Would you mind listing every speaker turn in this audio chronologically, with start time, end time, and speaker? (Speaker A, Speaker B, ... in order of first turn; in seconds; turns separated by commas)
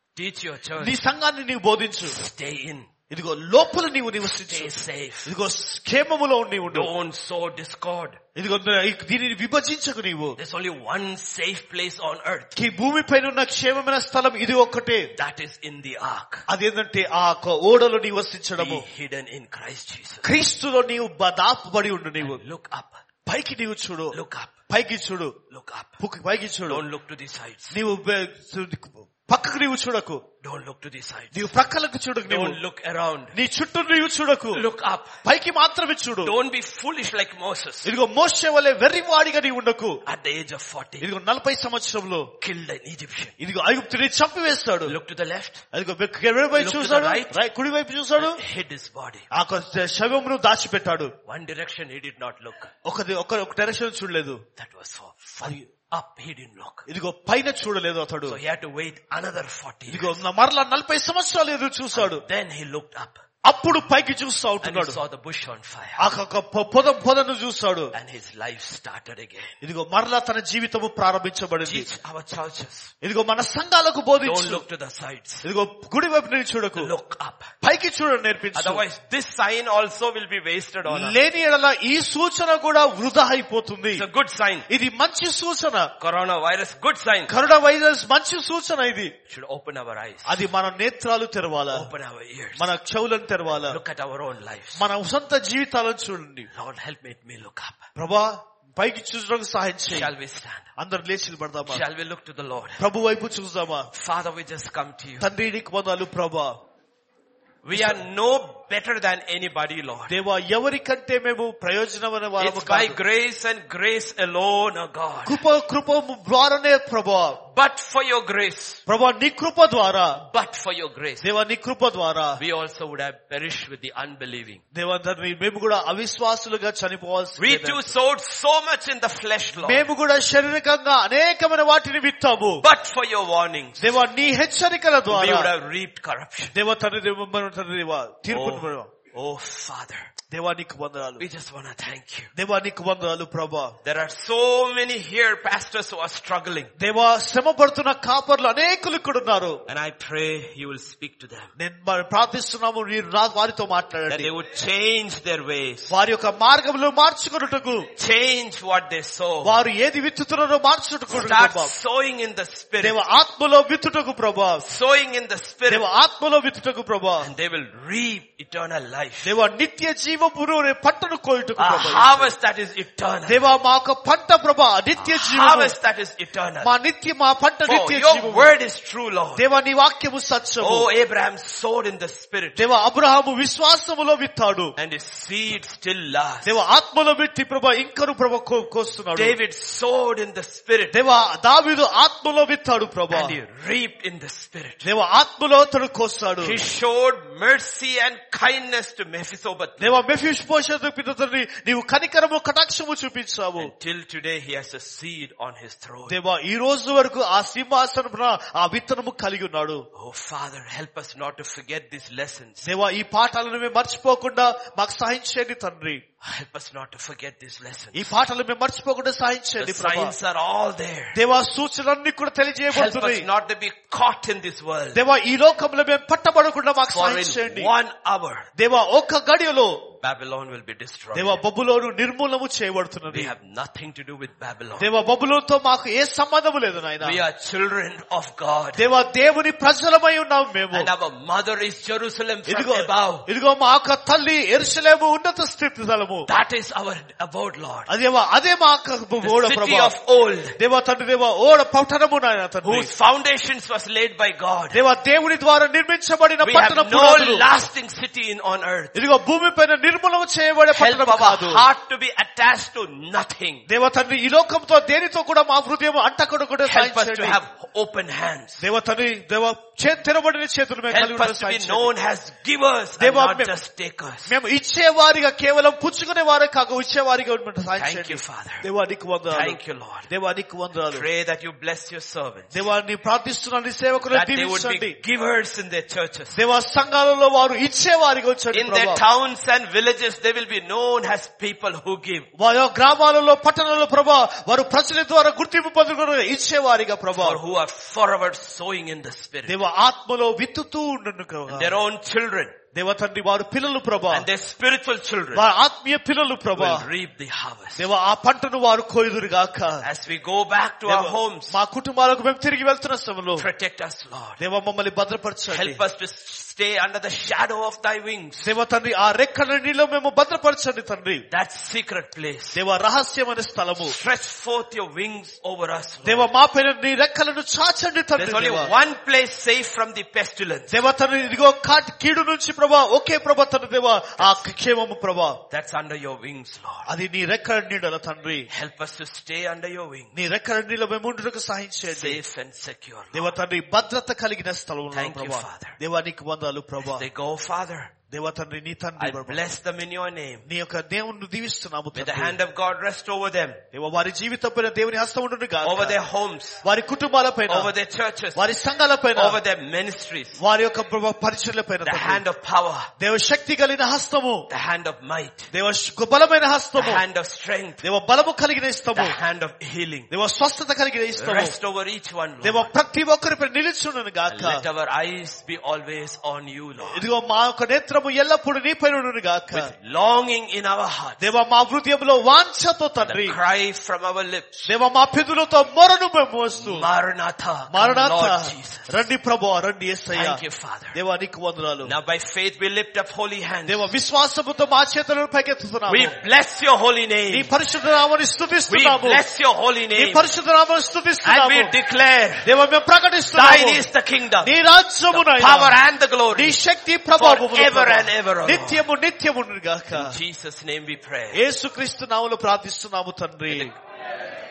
Speaker A: 0.1-0.9, Speaker B: 0.8-2.1, Speaker A: 2.0-2.9, Speaker B: 3.1-6.9, Speaker A: 4.2-5.3, Speaker A: 6.7-8.2, Speaker B: 8.3-10.4, Speaker A: 10.3-12.6, Speaker B: 12.6-15.1, Speaker A: 15.1-16.4, Speaker B: 16.5-18.8, Speaker A: 18.6-20.3, Speaker B: 20.2-22.4, Speaker A: 22.2-23.0, Speaker B: 23.3-24.2, Speaker A: 24.1-24.6, Speaker B: 24.7-25.4, Speaker A: 25.5-26.0, Speaker B: 26.0-26.8, Speaker A: 26.7-27.7, Speaker B: 27.7-30.2, Speaker A: 30.4-31.5, Speaker B: 31.3-32.6, Speaker A: 32.3-33.3, Speaker B: 33.3-34.6, Speaker A: 34.5-35.2, Speaker B: 35.2-36.3, Speaker A: 36.2-37.9, Speaker B: 37.9-40.0, Speaker A: 40.1-41.1, Speaker B: 41.0-42.3, Speaker A: 42.4-43.4, Speaker B: 43.4-44.9, Speaker A: 44.9-45.6, Speaker B: 45.7-48.4, Speaker A: 46.6-47.4, Speaker A: 48.1-49.3, Speaker B: 49.3-51.1, Speaker A: 51.3-52.7, Speaker B: 52.9-54.4, Speaker A: 54.6-56.9, Speaker B: 55.4-55.7, Speaker B: 56.9-58.4, Speaker A: 58.3-60.2, Speaker B: 59.9-62.2, Speaker A: 61.9-63.2, Speaker B: 63.4-65.0, Speaker A: 64.6-66.1, Speaker B: 66.0-67.9, Speaker A: 67.9-69.6, Speaker B: 69.6-71.9, Speaker A: 71.6-72.9, Speaker B: 73.0-74.6, Speaker A: 74.2-75.4, Speaker B: 75.4-76.9, Speaker A: 76.8-77.5, Speaker B: 77.6-78.8, Speaker A: 78.5-81.2, Speaker B: 80.9-84.0, Speaker A: 83.9-84.7, Speaker B: 84.7-85.9, Speaker A: 86.0-87.3, Speaker B: 87.3-89.1, Speaker A: 89.3-90.4, Speaker B: 90.3-91.9, Speaker A: 91.7-92.7, Speaker B: 92.6-93.8, Speaker A: 93.7-94.8, Speaker B: 94.8-96.5, Speaker A: 96.5-97.8, Speaker B: 98.0-100.1, Speaker A: 99.9-100.7, Speaker B: 100.8-101.8, Speaker A: 101.6-102.9, Speaker B: 102.8-103.9, Speaker A: 103.9-105.3, Speaker B: 105.2-106.6, Speaker A: 107.6-110.2, Speaker B: 107.7-108.0, Speaker B: 110.1-113.0, Speaker A: 112.4-115.4, Speaker B: 115.3-117.4, Speaker A: 117.5-118.8, Speaker B: 118.9-120.2, Speaker A: 120.1-121.3, Speaker B: 121.2-122.4, Speaker A: 122.4-124.6, Speaker B: 124.7-127.9, Speaker A: 127.4-129.8, Speaker B: 129.6-132.6, Speaker A: 132.6-133.9, Speaker B: 133.8-135.5, Speaker A: 135.1-136.6, Speaker B: 136.5-138.9, Speaker A: 138.3-140.1, Speaker B: 140.3-141.2, Speaker A: 141.2-142.3, Speaker B: 142.3-143.7, Speaker A: 143.8-146.7, Speaker B: 146.8-149.6, Speaker A: 149.7-151.5, Speaker B: 151.6-154.3, Speaker A: 154.1-155.9, Speaker B: 155.9-157.9, Speaker A: 157.9-159.6, Speaker B: 159.4-161.7, Speaker A: 161.1-163.0, Speaker B: 162.8-164.6, Speaker A: 164.6-165.9, Speaker B: 165.7-167.3, Speaker A: 167.2-169.3, Speaker B: 169.2-172.3, Speaker A: 171.6-173.5, Speaker B: 173.3-175.7, Speaker A: 175.0-176.7, Speaker B: 176.6-178.5, Speaker A: 177.6-179.4, Speaker B: 179.3-180.9, Speaker A: 180.6-182.6, Speaker B: 182.6-184.7, Speaker A: 184.8-186.5, Speaker B: 186.4-189.4, Speaker A: 189.1-190.9, Speaker B: 190.9-193.3, Speaker A: 193.1-194.8, Speaker B: 194.8-196.6, Speaker A: 196.4-200.0, Speaker B: 199.8-203.7, Speaker A: 203.6-206.2, Speaker B: 206.1-209.8, Speaker A: 209.9-212.6, Speaker B: 212.6-216.0, Speaker A: 216.2-218.1, Speaker B: 217.9-220.1, Speaker A: 219.6-221.2, Speaker B: 221.1-223.3, Speaker A: 222.7-225.0, Speaker B: 224.9-227.7, Speaker A: 226.9-228.5, Speaker B: 228.6-229.8, Speaker A: 230.0-231.4, Speaker B: 231.1-233.3, Speaker A: 233.1-234.9, Speaker B: 234.8-237.2, Speaker A: 237.0-238.8, Speaker B: 238.8-240.9, Speaker A: 240.7-243.3, Speaker B: 242.5-246.3, Speaker A: 246.3-247.9, Speaker B: 247.9-249.9, Speaker A: 249.2-250.6, Speaker B: 250.6-252.9, Speaker A: 252.6-254.8, Speaker B: 254.7-257.4, Speaker A: 256.4-258.9, Speaker B: 258.9-261.6, Speaker A: 260.7-263.6, Speaker B: 263.7-267.4, Speaker A: 266.6-268.6, Speaker B: 268.6-271.9, Speaker A: 270.9-274.3, Speaker B: 273.0-273.5, Speaker B: 274.3-281.1, Speaker A: 277.8-278.6, Speaker A: 279.3-280.1, Speaker A: 280.9-282.6, Speaker B: 282.5-284.9, Speaker A: 284.1-286.4, Speaker B: 286.3-289.0, Speaker A: 288.5-292.3, Speaker B: 292.4-297.4, Speaker A: 297.1-299.6, Speaker B: 299.5-301.7, Speaker A: 301.5-302.6, Speaker B: 302.7-304.3, Speaker A: 304.1-305.4, Speaker B: 305.4-306.9, Speaker A: 306.6-307.9, Speaker B: 307.8-309.9, Speaker A: 309.8-311.6, Speaker B: 310.9-313.4, Speaker A: 313.4-314.4, Speaker B: 314.4-315.8, Speaker A: 315.5-318.5, Speaker B: 318.4-321.2, Speaker A: 321.3-322.6, Speaker B: 322.5-323.9, Speaker A: 323.8-326.3, Speaker B: 326.1-328.7, Speaker A: 328.1-330.7, Speaker B: 330.7-335.4, Speaker A: 334.2-334.4, Speaker A: 335.5-336.9, Speaker B: 336.9-338.5, Speaker A: 338.5-340.1, Speaker B: 340.1-342.2, Speaker A: 341.9-343.4, Speaker B: 343.1-347.0, Speaker A: 344.9-345.8, Speaker A: 346.8-347.9, Speaker B: 348.1-349.4, Speaker A: 349.0-350.5, Speaker B: 350.5-352.4, Speaker A: 351.9-353.6, Speaker B: 353.7-356.0, Speaker A: 355.6-356.6, Speaker B: 356.6-357.7, Speaker A: 357.5-358.4, Speaker B: 358.4-359.4, Speaker A: 359.1-360.4, Speaker B: 360.4-362.2, Speaker A: 361.8-362.9, Speaker B: 363.0-364.4, Speaker A: 364.5-365.5, Speaker B: 365.5-367.0, Speaker A: 366.8-367.8, Speaker B: 367.8-369.2, Speaker A: 368.9-370.1, Speaker B: 370.1-371.6, Speaker A: 371.2-372.7, Speaker B: 372.4-374.6, Speaker A: 374.3-377.1, Speaker B: 376.8-379.7, Speaker A: 379.5-381.2, Speaker B: 381.2-383.4, Speaker A: 383.0-384.7, Speaker B: 384.7-386.9, Speaker A: 386.6-389.1, Speaker B: 387.7-390.4, Speaker A: 390.1-391.0, Speaker B: 390.9-391.9, Speaker A: 391.8-393.9, Speaker B: 393.6-396.1, Speaker A: 395.9-397.5, Speaker B: 397.3-399.2, Speaker A: 398.7-400.2, Speaker B: 399.9-401.7, Speaker A: 401.2-402.5, Speaker B: 402.4-403.9, Speaker A: 403.3-404.5, Speaker B: 404.4-405.8, Speaker A: 405.1-406.6, Speaker B: 406.3-410.2, Speaker A: 407.2-408.8, Speaker A: 409.9-411.4, Speaker B: 411.3-413.7, Speaker A: 413.5-413.8